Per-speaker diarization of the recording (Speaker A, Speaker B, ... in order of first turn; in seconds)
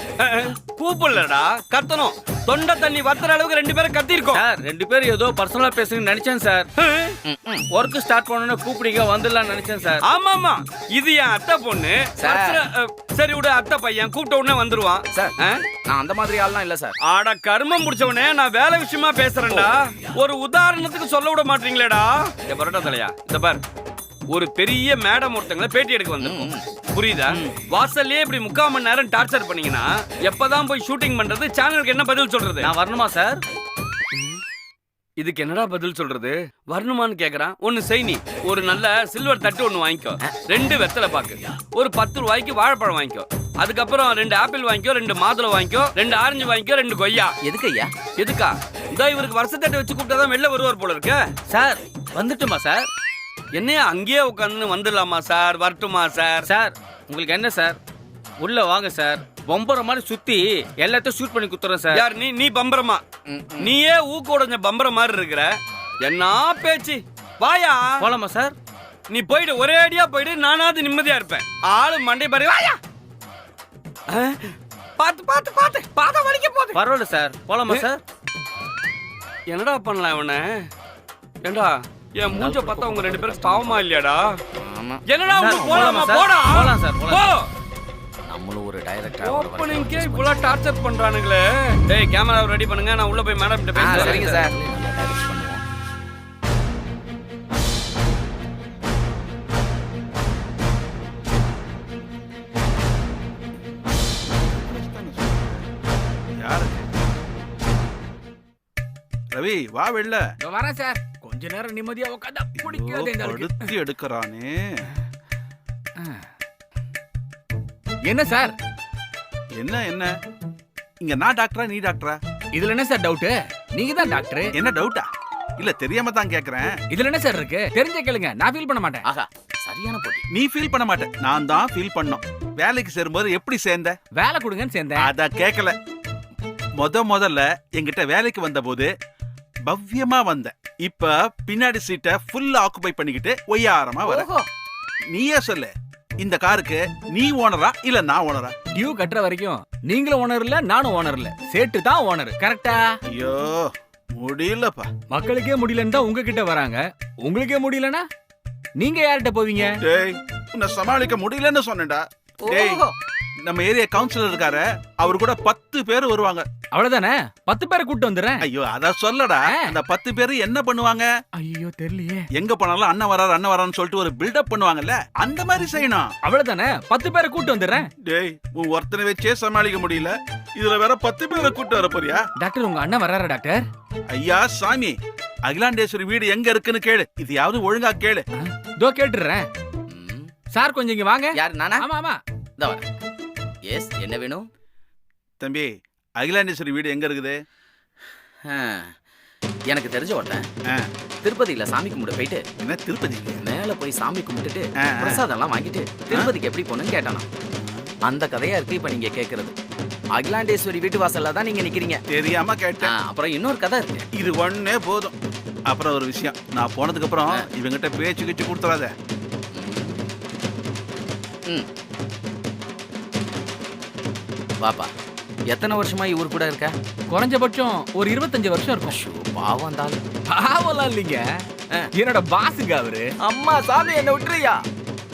Speaker A: 0.2-4.4, 6.8-7.2, 10.0-15.6, 17.1-23.6, 24.3-32.7, 35.2-47.3, 48.2-51.2, 53.5-56.5, 61.9-63.0, 63.6-68.1, 69.1-72.8, 74.1-76.8, 79.5-80.6, 81.4-84.2, 85.1-87.5, 89.2-94.5
Speaker B: 4.3-6.7, 7.7-10.0, 32.6-33.4, 51.5-52.9, 56.5-57.8, 58.4-62.0, 68.0-68.5, 76.7-78.0, 82.4-83.7, 85.3-87.3, 94.1-94.4
Speaker C: 7.2-7.7, 12.2-12.6, 15.8-16.9, 26.2-26.6, 47.4-47.9, 63.3-63.7, 84.6-85.0, 88.3-90.6, 93.7-95.6, 129.1-130.2, 144.0-144.5, 162.4-162.9, 189.9-190.3, 191.3-191.8, 192.6-192.8, 193.7-194.5, 198.4-198.9, 199.7-200.5, 201.2-202.4, 203.4-207.3, 208.1-209.5, 210.2-212.0, 212.8-214.1, 219.5-220.0, 224.6-224.9, 225.5-226.7, 228.9-230.0, 233.2-234.6
Speaker D: 104.3-105.7, 106.4-106.8, 109.3-110.2, 112.6-114.6, 119.6-120.1, 121.0-122.2, 124.5-126.8, 130.3-134.0, 135.0-135.8, 136.8-138.9, 139.7-144.3, 145.1-148.5, 153.1-154.9, 159.8-162.9, 163.4-166.5, 168.4-171.1, 172.3-176.1, 178.1-182.2, 184.1-188.2, 195.4-197.4, 202.6-203.4, 204.8-205.2, 207.6-207.8, 212.1-212.9, 214.1-215.1, 215.7-218.9
Speaker E: 110.4-113.7, 116.0-116.2, 118.0-118.5, 122.5-124.5, 126.9-129.0, 134.2-135.1, 148.7-153.0, 155.1-158.1, 158.8-159.8, 166.7-168.4, 169.5-169.7, 171.4-172.2, 176.2-177.9, 182.4-183.6, 188.3-189.5, 190.5-192.2, 227.1-229.0, 230.3-231.2, 231.9-233.1